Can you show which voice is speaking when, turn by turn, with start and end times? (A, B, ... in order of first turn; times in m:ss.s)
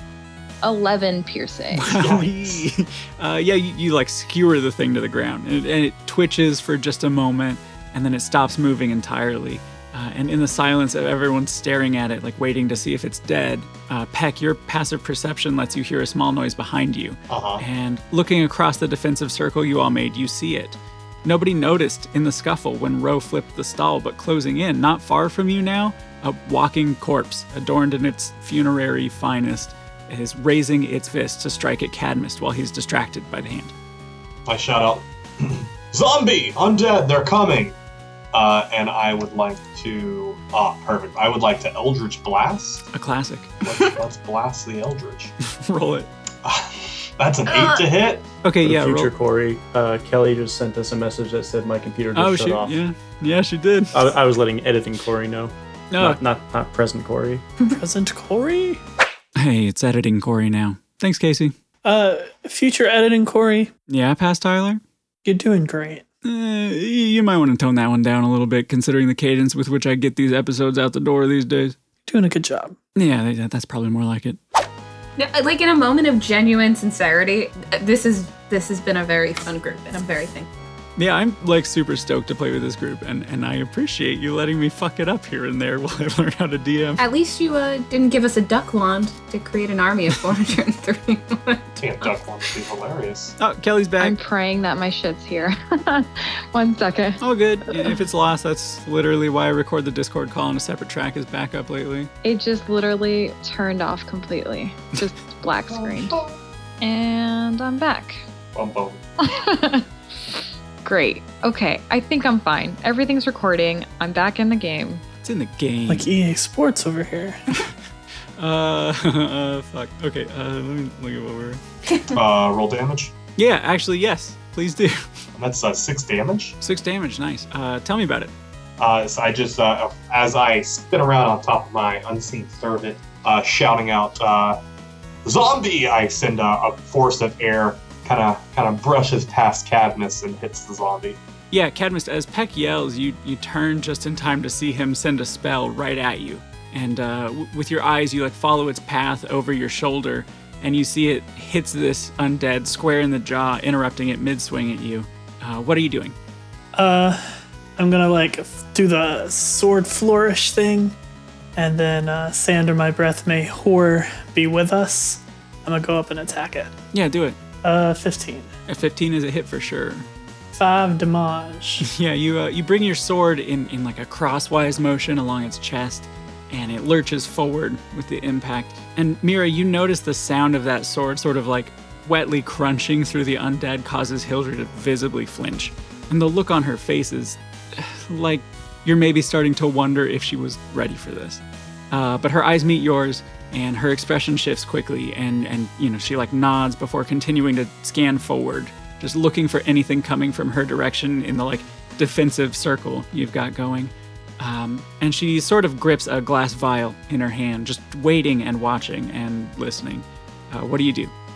0:00.6-0:02.0 A
0:01.7-0:33.7 B
0:02.0-0:02.6 C
0:17.3-0:17.6 C
0:34.5-0:37.8 C
0:38.3-0:42.8 C
0:42.9-0:43.5 B
0:43.6-0:45.3 C
0:45.5-0:46.1 B
0:46.4-0:48.3 C
0:47.5-0:47.9 D
0:48.4-0:49.1 B
0:48.6-0:52.8 E
0:52.2-0:54.1 B
0:53.9-0:57.4 E
0:55.9-0:56.2 B
0:57.7-0:58.8 F
0:59.4-1:01.6 B
1:01.8-1:03.7 F
1:03.9-1:04.8 B
1:05.2-1:06.0 F
1:06.2-1:11.8 B
1:12.1-1:12.8 F
1:13.0-1:14.4 B
1:15.2-1:20.5 D
1:21.0-1:27.0 B
1:27.0-1:32.1 D
1:31.8-1:33.4 C
1:33.4-1:34.2 B
1:34.0-1:37.9 A
1:37.2-1:42.1 B
1:42.2-1:46.2 A
1:45.7-1:46.4 C
1:46.8-1:48.2 A
1:48.5-1:49.0 C
1:49.2-1:55.0 A
1:55.2-1:56.1 B
1:55.9-1:57.4 F
1:58.4-2:01.6 B
2:02.1-2:03.1 C
2:03.4-2:05.1 B
2:05.4-2:06.6 C
2:06.6-2:08.3 B
2:08.8-2:14.6 C
2:15.2-2:21.2 C
2:21.5-2:36.2 B
2:36.8-2:37.2 F
2:37.8-2:41.0 F
2:41.6-2:46.8 F
2:46.9-2:47.4 B
2:47.6-2:48.5 F
2:48.7-2:50.1 B
2:50.5-2:51.8 F
2:51.8-3:31.1 B